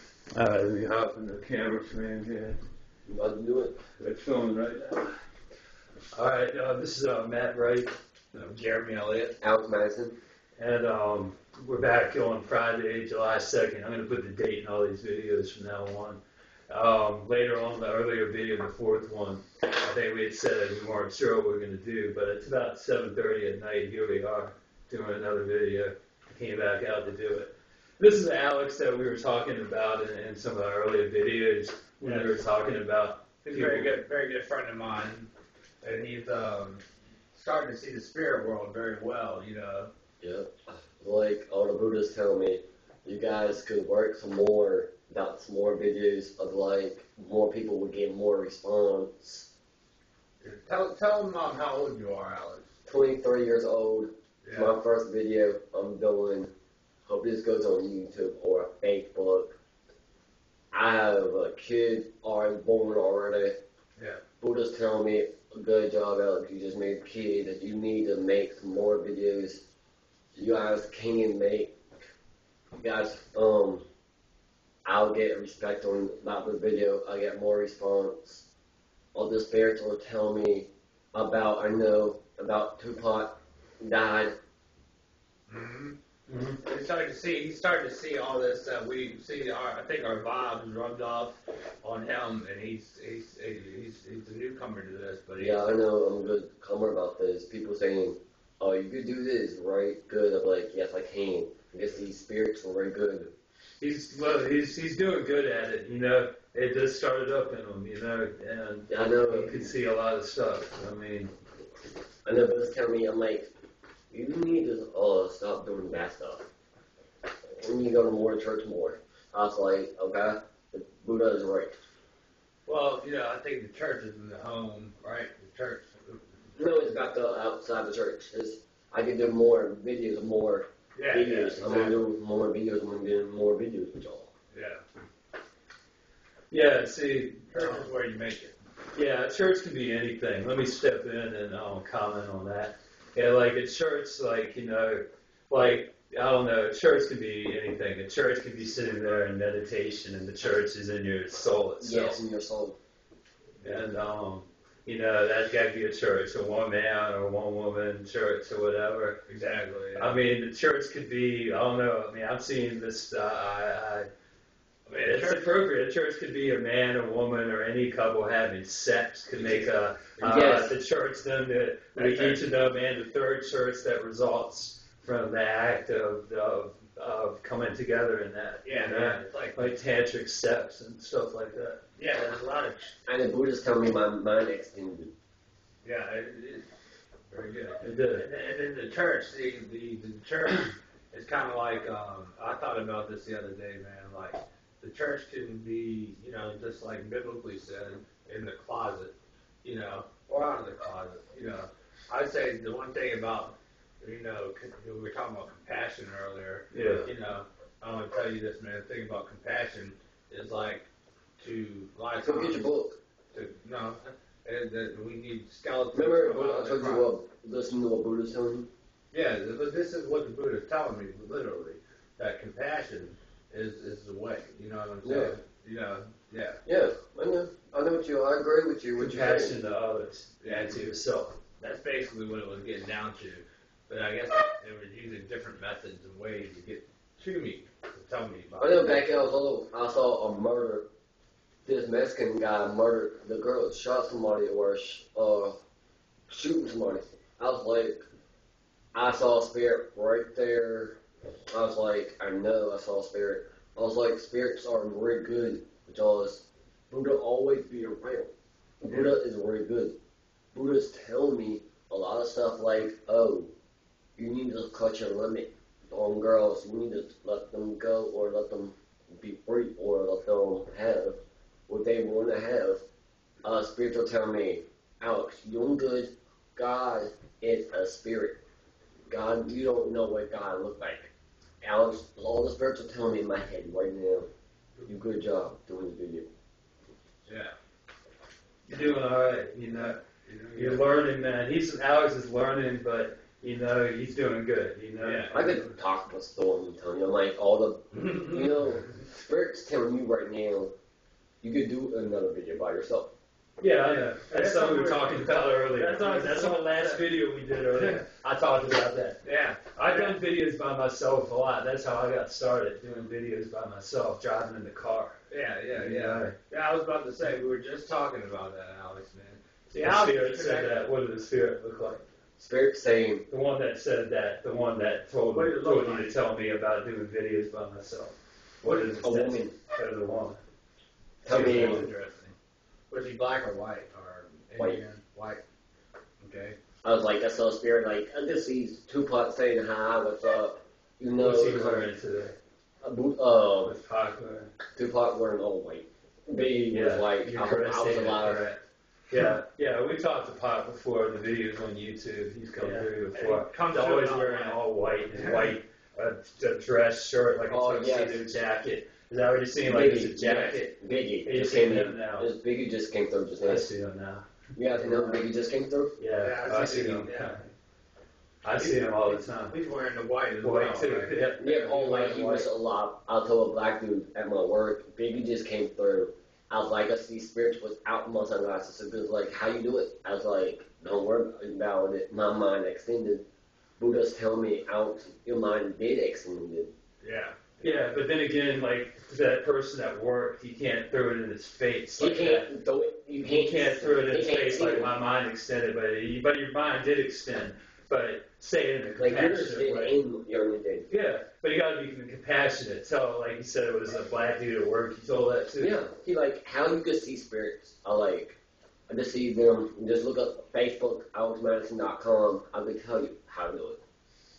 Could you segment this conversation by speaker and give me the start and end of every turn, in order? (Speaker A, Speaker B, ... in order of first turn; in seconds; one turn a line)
Speaker A: 0.3-2.6
Speaker B: 3.1-3.8
Speaker A: 4.0-5.2
Speaker A: 6.2-7.9
Speaker C: 8.3-9.3
Speaker B: 9.4-10.1
Speaker A: 10.6-33.9
Speaker C: 32.0-32.4
Speaker C: 33.4-35.3
Speaker C: 35.8-39.9
Speaker B: 40.2-49.5
Speaker C: 50.4-52.6
Speaker B: 52.9-56.5
Speaker C: 54.4-54.8
Speaker B: 57.0-59.6
Speaker B: 60.7-63.6
Speaker B: 64.4-69.6
Speaker B: 70.3-71.8
Speaker B: 72.8-73.8
Speaker B: 74.9-78.5
Speaker B: 79.2-84.4
Speaker C: 85.5-86.0
Speaker A: 86.3-86.6
Speaker C: 86.6-95.6
Speaker B: 95.4-103.3
Speaker A: 103.8-111.3
Speaker B: 108.9-109.7
Speaker B: 112.3-113.5
Speaker B: 114.1-116.5
Speaker B: 117.6-121.8
Speaker C: 122.7-126.2
Speaker B: 126.6-134.3
Speaker C: 131.0-132.0
Speaker C: 134.5-134.8
Speaker A: 136.5-137.8
Speaker C: 137.5-138.6
Speaker A: 138.9-152.2
Speaker B: 151.8-152.8
Speaker A: 153.6-159.2
Speaker C: 159.3-160.2
Speaker A: 159.9-164.1
Speaker C: 164.9-165.6
Speaker A: 165.0-181.8
Speaker C: 169.3-170.7
Speaker B: 170.3-170.7
Speaker C: 171.9-172.4
Speaker C: 178.7-179.8
Speaker C: 182.0-182.9
Speaker B: 183.1-185.1
Speaker C: 185.8-186.7
Speaker C: 187.3-210.9
Speaker A: 187.8-188.3
Speaker A: 206.7-207.1
Speaker C: 211.4-212.6
Speaker B: 212.2-213.0
Speaker C: 213.3-217.1
Speaker B: 215.9-218.7
Speaker C: 219.1-226.6
Speaker B: 225.0-225.3
Speaker B: 226.7-229.6
Speaker A: 229.0-231.4
Speaker C: 230.4-230.8
Speaker C: 231.6-239.2
Speaker B: 238.6-240.9
Speaker B: 241.7-245.6
Speaker B: 246.3-248.1
Speaker B: 248.9-251.0
Speaker B: 251.5-258.3
Speaker B: 258.8-259.9
Speaker B: 260.5-263.5
Speaker B: 264.2-272.8
Speaker B: 273.4-278.4
Speaker B: 279.1-281.1
Speaker B: 281.6-284.3
Speaker B: 284.9-286.3
Speaker C: 287.3-287.5
Speaker A: 288.7-290.0
Speaker C: 290.0-290.9
Speaker A: 290.6-295.7
Speaker C: 295.0-295.4
Speaker B: 295.3-300.7
Speaker C: 298.1-298.4
Speaker B: 301.4-303.1
Speaker A: 303.6-309.2
Speaker C: 303.8-308.0
Speaker C: 309.2-310.2
Speaker A: 309.8-315.2
Speaker C: 315.3-320.9
Speaker A: 315.7-316.4
Speaker A: 319.8-322.0
Speaker B: 322.4-323.3
Speaker A: 323.3-330.4
Speaker C: 325.3-326.2
Speaker C: 328.6-329.1
Speaker B: 329.0-329.5
Speaker B: 331.2-331.8
Speaker A: 331.3-331.9
Speaker C: 331.3-332.3
Speaker C: 332.9-335.4
Speaker C: 336.2-336.6
Speaker B: 336.8-341.9
Speaker A: 341.2-342.4
Speaker B: 342.8-343.7
Speaker A: 343.6-344.5
Speaker B: 344.8-348.5
Speaker A: 346.7-362.3
Speaker C: 352.6-354.6
Speaker C: 355.1-355.6
Speaker B: 357.5-358.4
Speaker B: 359.6-363.7
Speaker C: 360.2-360.5
Speaker A: 363.4-365.1
Speaker B: 364.6-366.0
Speaker A: 366.0-367.5
Speaker C: 366.2-367.4
Speaker A: 368.4-369.6
Speaker C: 368.5-372.5
Speaker A: 370.4-371.4
Speaker B: 371.4-383.2
Speaker B: 383.8-386.7
Speaker C: 387.0-387.5
Speaker A: 387.6-392.5
Speaker B: 392.0-394.9
Speaker A: 393.2-400.0
Speaker B: 399.0-400.9
Speaker A: 400.9-405.8
Speaker B: 405.6-408.4
Speaker B: 408.9-413.8